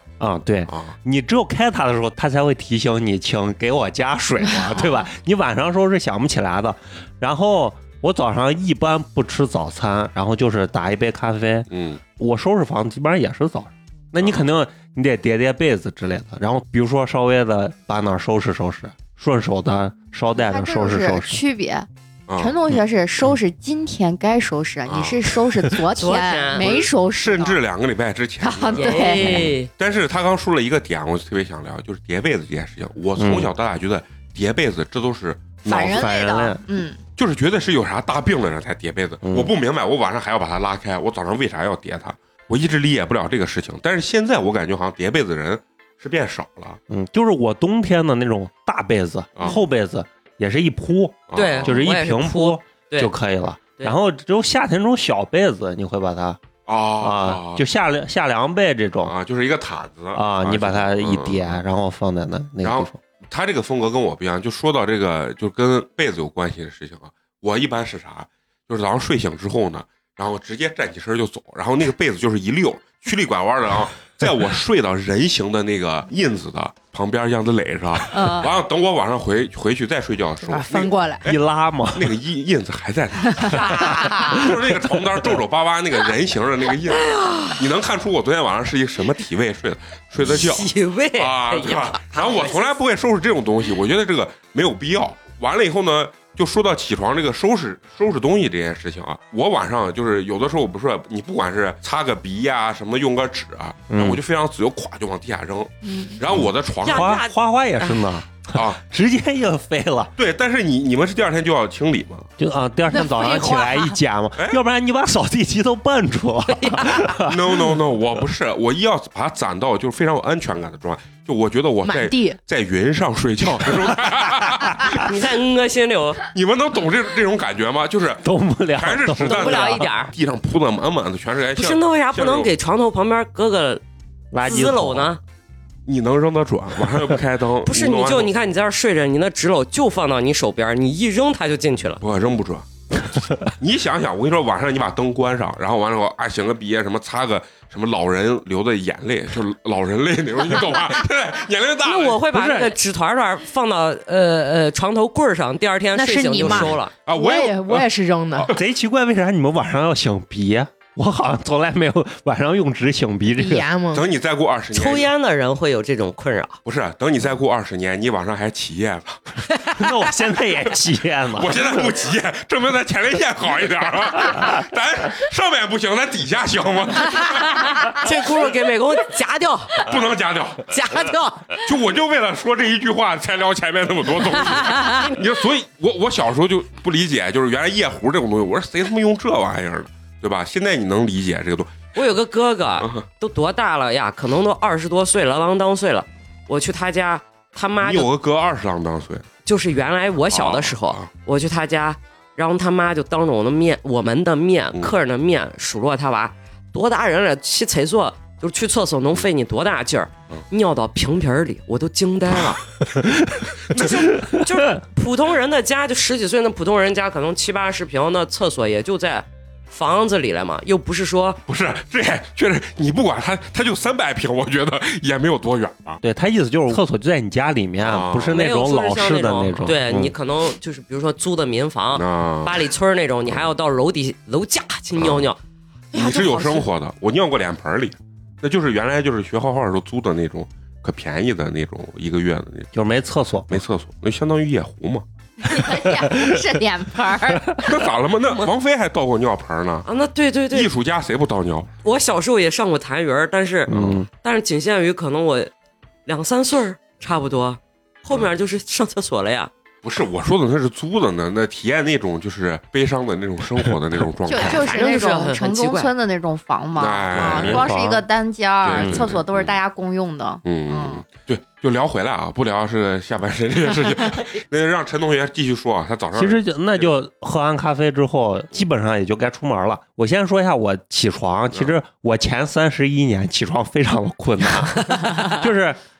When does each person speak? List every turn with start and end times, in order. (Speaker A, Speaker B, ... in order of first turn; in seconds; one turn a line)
Speaker A: 0.2-21.4
Speaker B: 0.7-1.0
Speaker B: 11.7-12.0
Speaker C: 20.4-27.6
Speaker B: 22.3-22.8
Speaker B: 24.9-25.3
Speaker D: 25.9-26.8
Speaker B: 26.6-36.1
Speaker C: 28.4-29.4
Speaker D: 28.7-29.7
Speaker A: 29.2-29.5
Speaker A: 33.2-33.5
Speaker C: 35.7-37.0
Speaker A: 35.7-36.6
Speaker B: 37.2-46.8
Speaker A: 39.2-39.5
Speaker A: 46.9-56.4
Speaker B: 51.3-51.8
Speaker D: 51.4-53.1
Speaker B: 56.7-57.6
Speaker A: 57.0-59.1
Speaker B: 59.0-61.6
Speaker A: 60.1-63.0
Speaker B: 62.6-81.4
Speaker C: 78.1-78.5
Speaker E: 80.4-81.3
Speaker A: 81.2-82.1
Speaker B: 81.9-107.2
Speaker C: 83.4-84.4
Speaker D: 83.5-84.1
Speaker D: 86.8-87.7
Speaker D: 90.2-92.8
Speaker A: 103.9-104.2
Speaker C: 105.8-106.2
Speaker D: 106.8-107.9
Speaker A: 106.9-110.1
Speaker B: 108.5-108.8
Speaker B: 110.2-112.3
Speaker A: 112.4-117.7
Speaker E: 113.0-113.3
Speaker D: 116.5-117.0
Speaker B: 117.3-125.1
Speaker E: 121.8-122.4
Speaker D: 124.8-126.2
Speaker B: 126.3-128.2
Speaker A: 128.2-129.9
Speaker B: 128.8-132.5
Speaker D: 129.2-130.1
Speaker D: 131.6-133.8
Speaker A: 134.3-135.2
Speaker D: 134.4-135.2
Speaker B: 135.9-138.3
Speaker D: 137.7-142.0
Speaker B: 142.0-152.2
Speaker D: 151.8-156.9
Speaker A: 152.4-152.7
Speaker E: 155.9-158.5
Speaker B: 156.4-158.6
Speaker A: 158.5-163.7
Speaker E: 163.4-164.1
Speaker B: 163.9-165.1
Speaker D: 164.7-166.6
Speaker B: 166.7-169.2
Speaker A: 169.7-171.7
Speaker B: 171.4-177.9
Speaker D: 177.6-179.9
Speaker B: 179.8-180.7
Speaker D: 180.7-181.6
Speaker B: 181.6-191.9
Speaker D: 184.6-185.2
Speaker D: 191.9-198.1
Speaker B: 192.8-193.1
Speaker B: 197.8-199.3
Speaker D: 199.5-212.6
Speaker B: 200.2-201.1
Speaker A: 213.0-213.4
Speaker D: 213.7-221.4
Speaker B: 213.7-214.0
Speaker A: 214.1-214.4
Speaker B: 221.5-226.0
Speaker A: 226.0-230.1
Speaker B: 227.8-228.4
Speaker D: 228.3-235.4
Speaker B: 231.9-232.7
Speaker B: 235.0-235.3
Speaker B: 235.9-242.7
Speaker C: 235.9-236.6
Speaker A: 242.7-243.6
Speaker B: 243.5-245.1
Speaker C: 245.4-247.6
Speaker A: 245.7-246.4
Speaker B: 247.6-249.9
Speaker D: 249.8-250.7
Speaker B: 250.5-251.7
Speaker D: 251.8-255.5
Speaker A: 253.7-254.1
Speaker B: 253.7-254.0
Speaker D: 256.1-259.5
Speaker B: 259.8-265.0
Speaker C: 264.3-271.0
Speaker D: 264.3-265.9
Speaker B: 266.8-267.7
Speaker A: 267.1-268.0
Speaker B: 268.6-269.6
Speaker A: 268.7-269.1
Speaker B: 270.4-276.9
Speaker A: 276.2-285.8